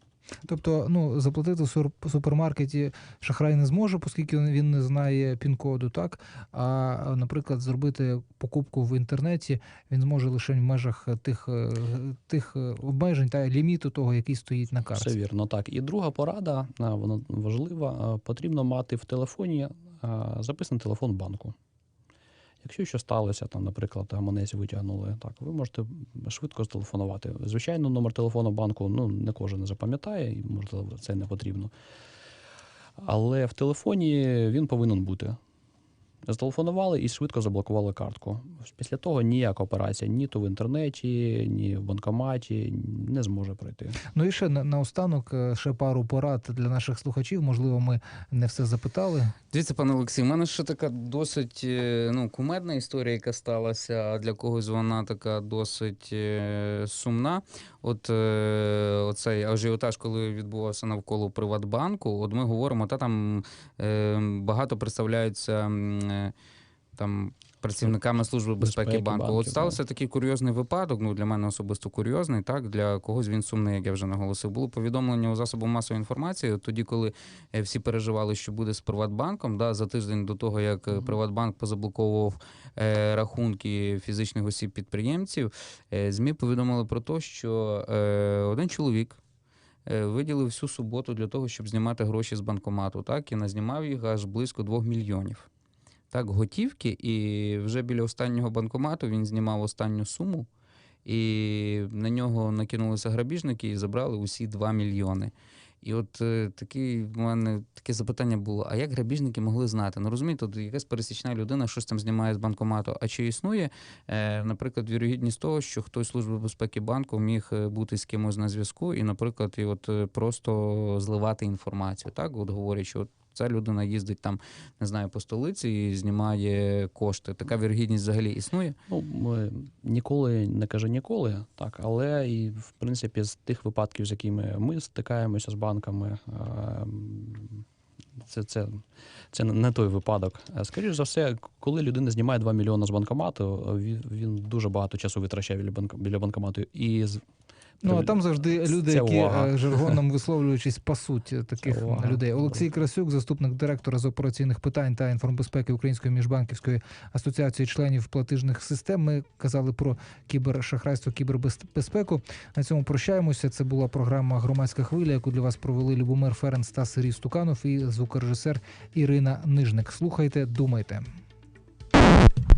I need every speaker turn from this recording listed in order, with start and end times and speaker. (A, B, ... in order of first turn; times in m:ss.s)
0:00.4-0:15.1 A
0:14.9-0:21.6 B
0:22.6-0:31.7 B
0:33.0-0:35.4 B
0:36.2-0:44.0 B
0:44.1-0:49.4 A
0:49.5-1:06.3 C
1:07.0-1:29.2 C
1:08.6-1:09.8 B
1:29.9-1:35.5 C
1:36.1-1:40.5 C
1:41.0-2:08.8 C
2:08.9-2:17.6 B
2:18.2-2:27.2 B
2:27.8-2:51.1 A
2:27.8-2:30.0 B
2:31.6-2:32.6 B